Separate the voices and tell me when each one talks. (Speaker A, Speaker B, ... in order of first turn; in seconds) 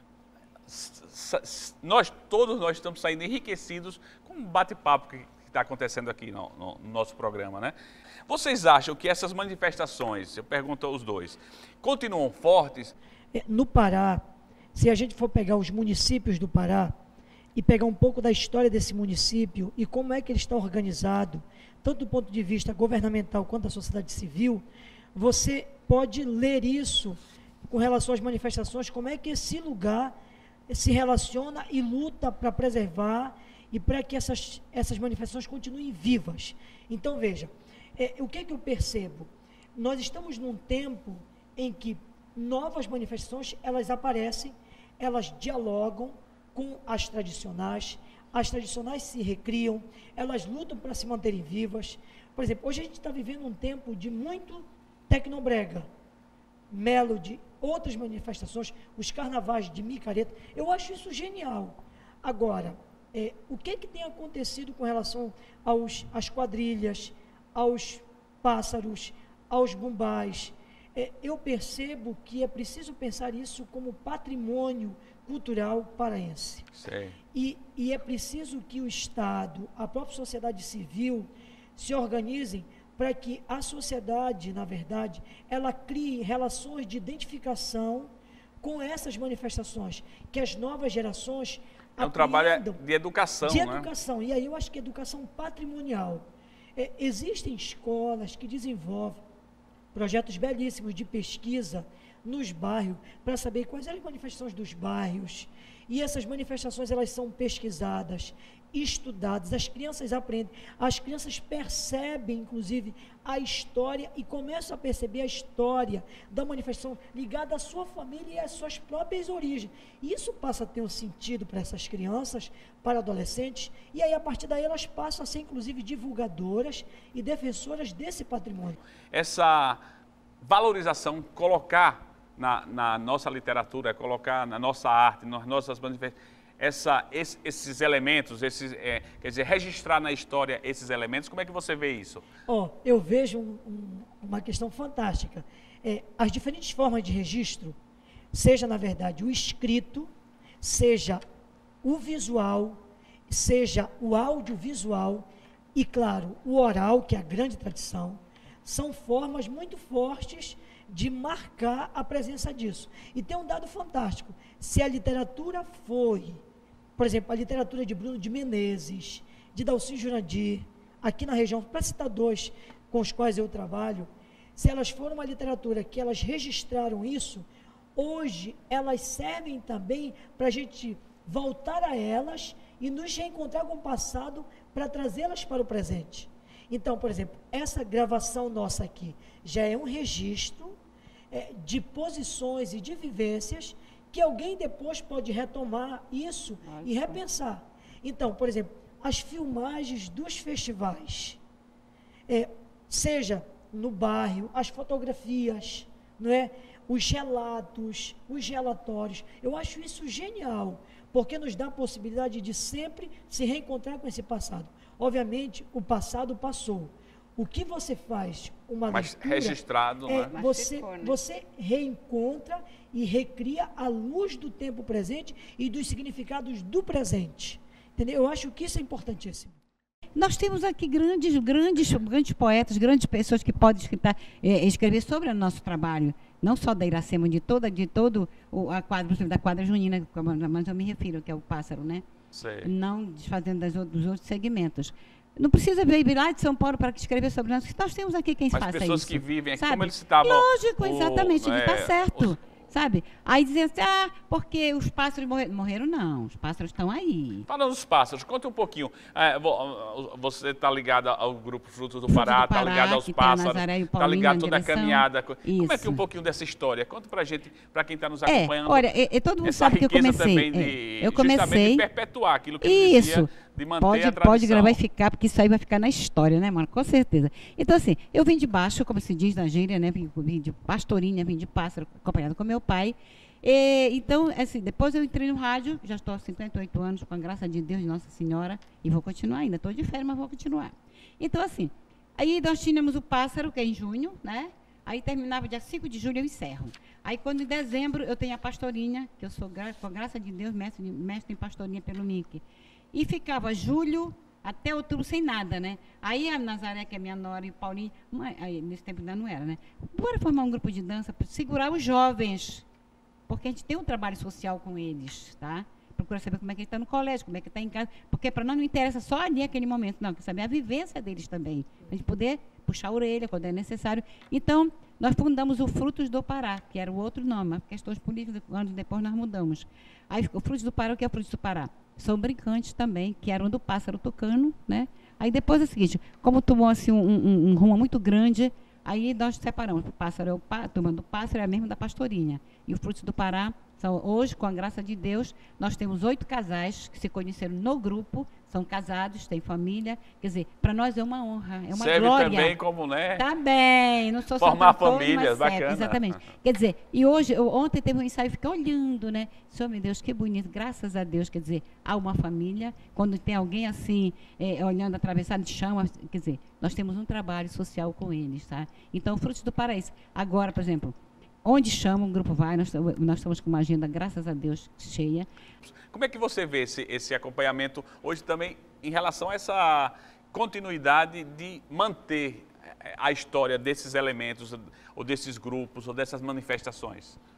Speaker A: 0.7-7.7, 8.3-12.9, 76.7-77.2, 92.0-93.9, 129.1-129.8, 130.4-142.2, 218.9-220.3, 242.3-242.7, 248.5-252.4, 257.5-268.9, 269.4-274.8, 351.7-353.2, 354.4-356.2, 375.6-387.2
Speaker B: 13.3-14.2, 14.7-16.9, 17.6-30.1, 30.7-55.9, 56.7-76.7, 77.3-88.1, 88.6-92.8, 93.4-99.2, 99.9-128.8, 142.5-147.8, 148.3-150.1, 150.6-151.2, 151.8-166.4, 167.0-190.8, 191.3-201.4, 202.3-229.6
Speaker C: 196.7-197.2, 220.2-221.2, 230.2-242.1, 242.6-257.5, 262.1-266.0, 268.3-271.9, 272.6-273.3, 273.8-302.4, 302.9-312.6, 313.3-352.6, 353.2-375.3